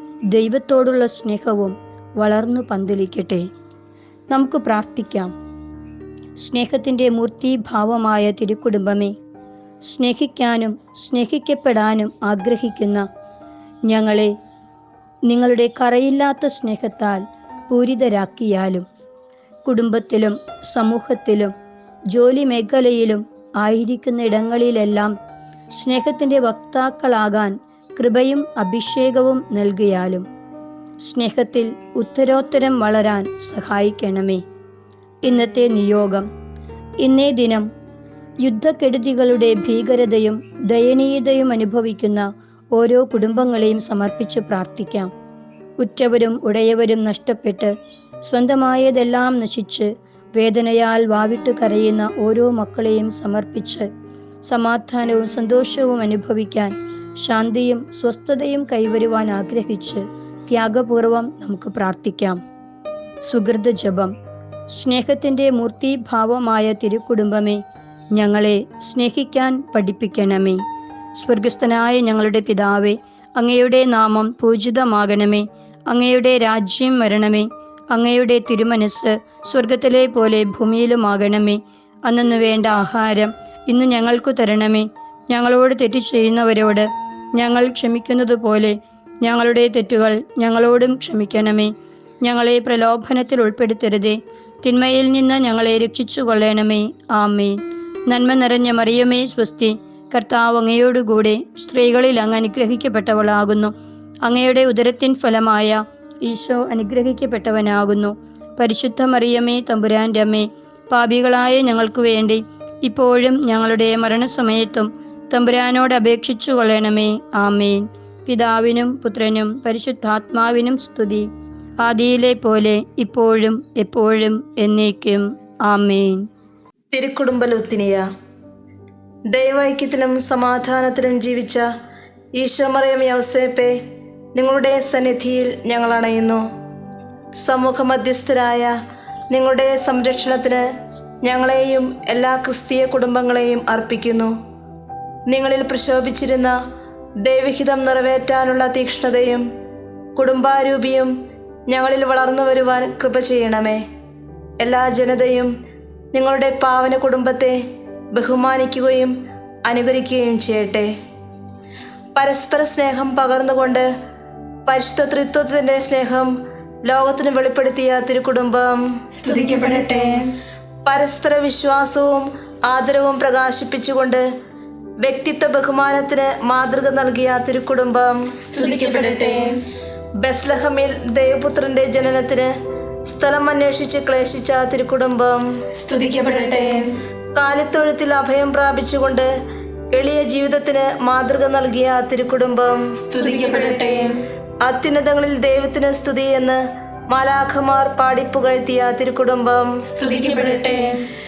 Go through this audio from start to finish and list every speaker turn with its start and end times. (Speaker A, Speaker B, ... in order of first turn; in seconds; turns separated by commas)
Speaker A: 0.3-3.4, Speaker A: 4.3-5.3, Speaker A: 6.4-9.1, Speaker A: 9.9-13.0, Speaker A: 13.9-14.3, Speaker A: 15.3-18.8, Speaker A: 19.6-21.5, Speaker A: 22.1-25.1, Speaker A: 25.8-30.2, Speaker A: 31.0-34.4, Speaker A: 35.2-36.2, Speaker A: 37.0-37.6, Speaker A: 38.4-45.1, Speaker A: 45.8-47.7, Speaker A: 48.3-53.9, Speaker A: 54.5-62.4, Speaker A: 63.2-64.1, Speaker A: 64.7-67.6, Speaker A: 68.1-70.6, Speaker A: 71.2-91.7, Speaker A: 92.2-103.7, Speaker A: 104.2-121.3, Speaker A: 121.8-126.2, Speaker B: 126.9-128.1, Speaker B: 129.3-131.6, Speaker B: 132.4-133.7, Speaker B: 134.4-136.4, Speaker B: 137.4-138.7, Speaker B: 139.3-140.6, Speaker B: 141.2-144.3, Speaker B: 145.3-146.5, Speaker B: 147.2-149.4, Speaker B: 150.2-151.1, Speaker B: 151.7-153.8, Speaker B: 154.6-155.5, Speaker B: 156.1-157.6, Speaker B: 158.1-159.1, Speaker B: 159.7-160.9, Speaker B: 162.1-163.9, Speaker B: 164.7-166.3, Speaker B: 166.8-169.2, Speaker C: 169.2-170.3, Speaker B: 170.8-174.2, Speaker B: 175.0-178.5, Speaker C: 178.5-179.6, Speaker B: 180.2-182.5, Speaker B: 183.1-185.7, Speaker C: 185.8-186.9, Speaker B: 187.3-189.3, Speaker B: 189.9-193.2, Speaker C: 193.2-194.2, Speaker B: 194.6-200.1, Speaker C: 200.0-201.0